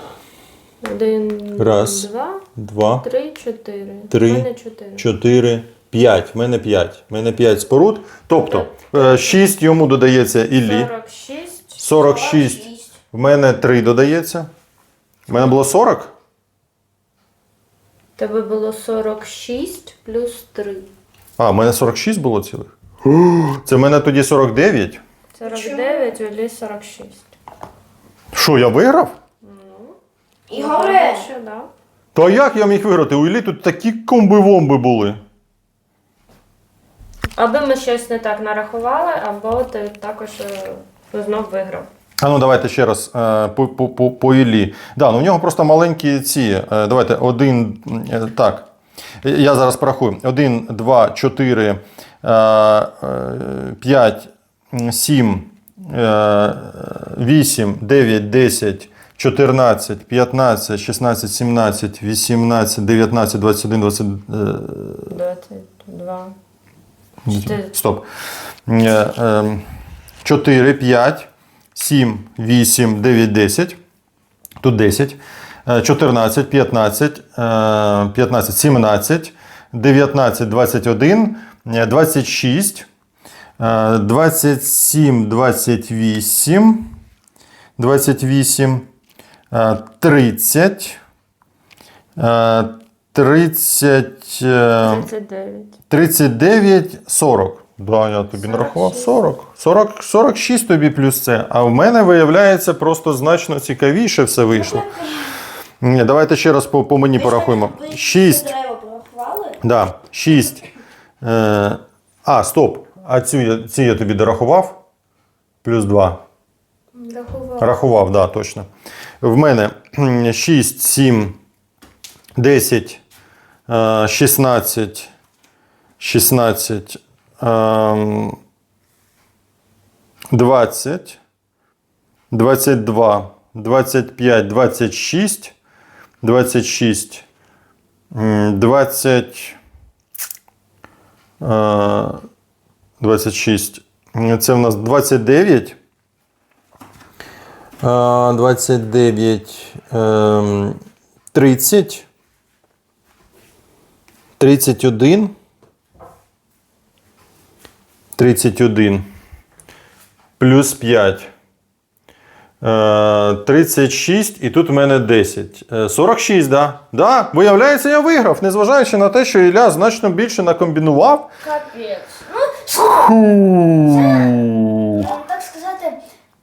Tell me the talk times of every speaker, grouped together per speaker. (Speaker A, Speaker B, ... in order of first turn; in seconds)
Speaker A: 0.8-5.1, 8.3-9.5, 10.6-11.8, 18.2-20.9, 25.4-27.3, 29.4-29.9, 30.5-31.7, 37.4-41.9, 65.1-66.3, 67.3-67.7, 94.8-95.8, 98.3-99.2, 116.9-117.7
Speaker B: 1.6-3.0, 4.1-10.9, 11.8-14.5, 15.3-16.1, 21.4-25.0, 28.3-29.1, 32.1-35.2, 42.2-48.7, 49.2-65.1, 67.2-68.0, 68.7-69.6, 70.2-73.8, 74.6-82.9, 83.6-86.9, 87.8-88.9, 89.5-91.0, 92.2-95.1, 95.9-104.8, 105.8-108.5, 109.6-110.6, 111.2-114.8, 115.6-116.2, 117.6-118.7, 119.2-121.4, 122.3-123.0, 123.7-125.1, 126.0-128.4, 130.3-131.2, 132.3-135.5, 136.2-137.2, 138.1-139.6, 141.4-142.2, 143.0-145.8, 147.8-150.8, 151.3-152.1, 154.4-155.3, 158.2-159.1, 160.4-161.3, 162.6-171.3, 172.8-175.1
Speaker C: 11.9-12.9, 25.4-26.1, 30.5-31.3, 104.5-105.3, 107.1-109.6, 171.4-173.1, 173.8-174.4, 174.9-176.0